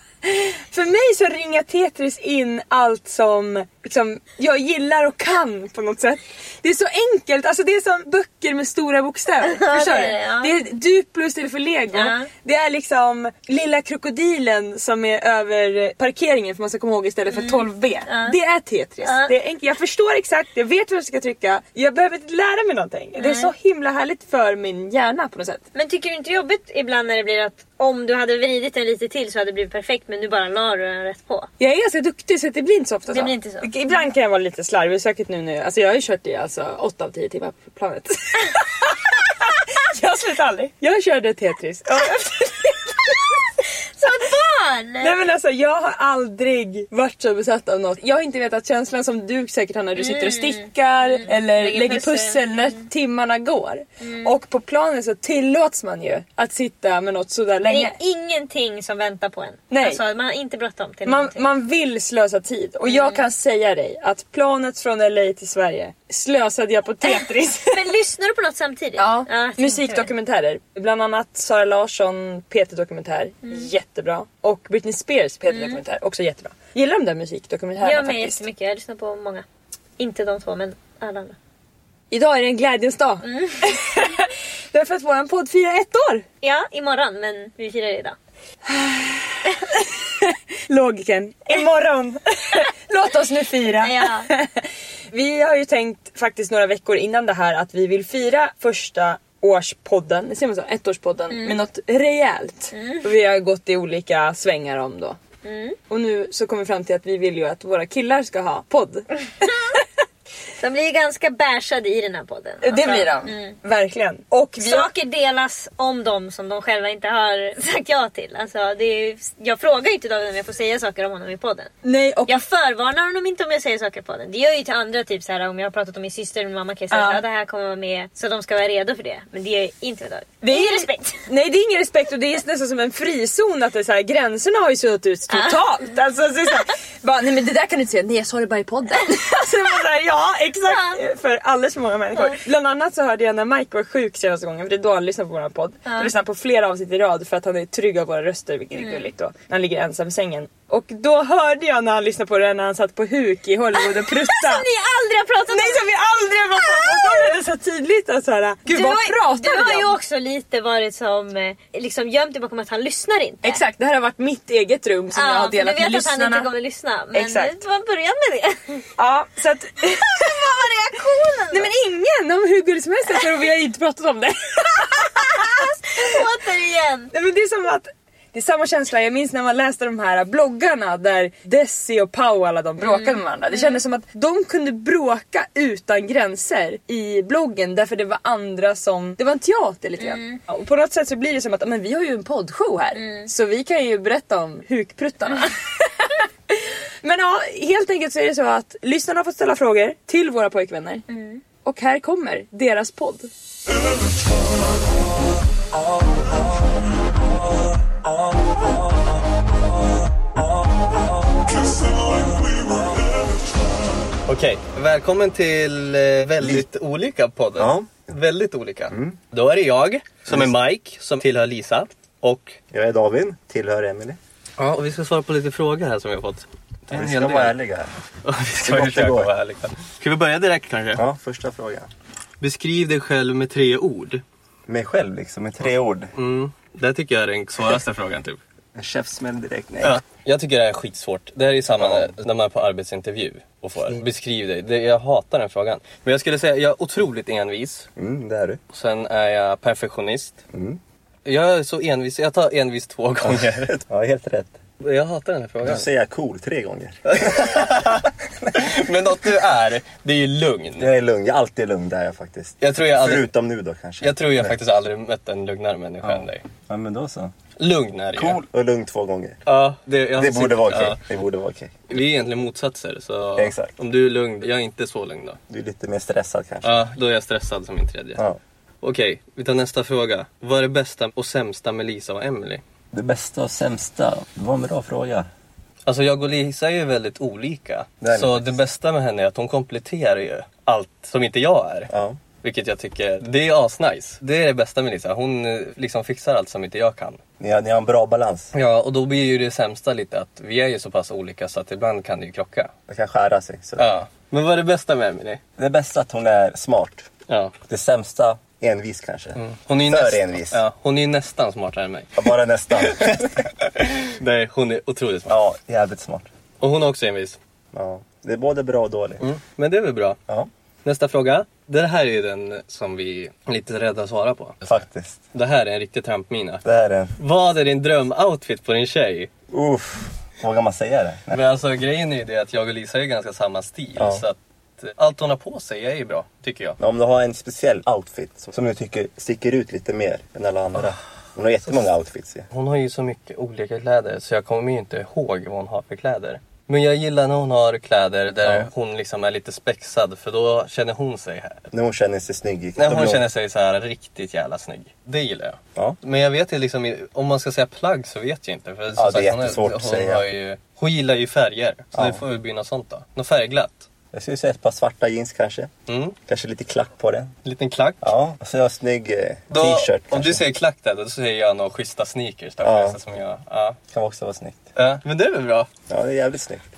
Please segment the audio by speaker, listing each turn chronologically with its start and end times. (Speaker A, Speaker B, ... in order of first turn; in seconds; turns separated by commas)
Speaker A: 0.2-25.6, Speaker B: 9.4-10.6, Speaker B: 11.9-12.3, Speaker B: 17.3-18.4, Speaker B: 19.0-19.3, Speaker B: 23.2-23.5, Speaker B: 25.8-31.5, Speaker A: 31.6-43.2, Speaker B: 33.1-33.7, Speaker B: 44.0-45.2, Speaker A: 45.0-58.0, Speaker B: 50.0-52.8, Speaker B: 54.0-54.4, Speaker B: 57.7-61.4, Speaker A: 59.7-60.0, Speaker A: 61.1-68.0, Speaker B: 62.9-63.2, Speaker B: 67.1-70.1, Speaker A: 69.0-78.5, Speaker B: 75.5-75.8, Speaker B: 77.8-79.4, Speaker B: 80.0-81.3, Speaker A: 82.1-86.2, Speaker B: 83.2-83.7, Speaker B: 86.4-88.2, Speaker A: 88.7-94.6, Speaker B: 93.8-94.3, Speaker A: 95.1-105.2, Speaker B: 101.3-101.6, Speaker B: 102.7-103.1, Speaker B: 105.4-105.8, Speaker A: 105.9-109.5, Speaker B: 109.4-109.8, Speaker B: 110.6-113.6, Speaker A: 112.6-114.9, Speaker B: 114.6-121.7, Speaker A: 121.8-122.4, Speaker B: 122.3-131.2, Speaker A: 126.9-127.2, Speaker A: 130.4-154.7, Speaker B: 135.3-135.7, Speaker B: 140.7-141.0, Speaker B: 142.1-142.4, Speaker B: 145.9-146.1, Speaker B: 148.8-149.0, Speaker B: 154.2-155.8, Speaker A: 155.5-159.9, Speaker B: 156.5-157.4, Speaker B: 158.7-163.6, Speaker A: 163.4-166.5, Speaker B: 165.2-168.9, Speaker A: 167.1-167.5, Speaker A: 169.0-170.4, Speaker B: 169.9-171.7, Speaker A: 171.5-176.2, Speaker B: 175.2-177.1, Speaker A: 177.1-201.0, Speaker B: 182.8-183.8, Speaker B: 190.0-190.4, Speaker B: 192.9-193.3, Speaker B: 201.1-201.4, Speaker A: 201.7-203.3, Speaker C: 205.8-206.4, Speaker C: 207.9-209.2, Speaker C: 210.4-213.2, Speaker D: 214.3-222.6, Speaker C: 217.6-217.9, Speaker C: 218.9-219.2, Speaker C: 220.3-220.6, Speaker C: 222.7-224.2, Speaker D: 224.6-227.6, Speaker C: 226.9-227.9, Speaker D: 228.2-231.0, Speaker C: 228.6-229.3, Speaker C: 230.9-231.9, Speaker D: 232.4-234.2, Speaker C: 234.7-236.1, Speaker D: 236.1-238.4, Speaker C: 238.8-240.0, Speaker D: 239.8-247.9, Speaker C: 241.7-242.1, Speaker C: 248.0-248.6, Speaker D: 248.7-250.4, Speaker C: 250.5-250.8, Speaker D: 251.3-253.7, Speaker C: 253.2-254.6, Speaker D: 254.8-255.9, Speaker C: 255.6-258.7, Speaker D: 257.1-260.9, Speaker C: 260.8-264.6, Speaker D: 262.6-263.3, Speaker D: 264.0-266.4, Speaker C: 266.0-267.4, Speaker D: 267.6-268.4, Speaker C: 268.1-269.4, Speaker D: 269.5-271.0, Speaker C: 270.2-271.7, Speaker D: 271.9-275.4, Speaker C: 273.4-273.7, Speaker C: 275.5-276.8, Speaker D: 276.6-278.2, Speaker D: 278.8-282.6, Speaker C: 282.9-285.3, Speaker D: 285.9-291.9, Speaker C: 288.0-288.6, Speaker C: 291.9-292.2, Speaker D: 292.4-297.2, Speaker C: 297.4-298.5, Speaker D: 298.5-302.7, Speaker C: 302.9-303.9, Speaker D: 303.8-305.4, Speaker C: 305.6-307.1, Speaker D: 307.3-307.5, Speaker C: 307.7-310.6, Speaker D: 309.4-312.3, Speaker C: 312.1-313.4, Speaker D: 312.8-315.4, Speaker C: 315.3-316.3, Speaker D: 316.6-317.4, Speaker C: 317.7-319.2, Speaker D: 319.2-320.2, Speaker D: 320.8-324.8, Speaker C: 324.6-325.2, Speaker D: 325.3-326.6, Speaker C: 326.6-327.1, Speaker D: 327.2-329.3, Speaker C: 329.5-331.4, Speaker D: 331.3-336.8, Speaker C: 334.0-334.2, Speaker C: 336.8-342.5, Speaker D: 342.5-351.6, Speaker C: 348.4-348.7, Speaker C: 351.7-353.2, Speaker D: 352.8-363.9, Speaker C: 358.9-360.3, Speaker C: 361.9-362.2, Speaker C: 364.1-365.7, Speaker D: 365.9-366.2, Speaker C: 366.2-367.3, Speaker D: 367.4-368.1, Speaker C: 368.0-370.4, Speaker D: 369.5-373.8, Speaker C: 372.6-373.0, Speaker C: 373.9-374.7, Speaker D: 374.8-375.7, Speaker C: 375.9-376.6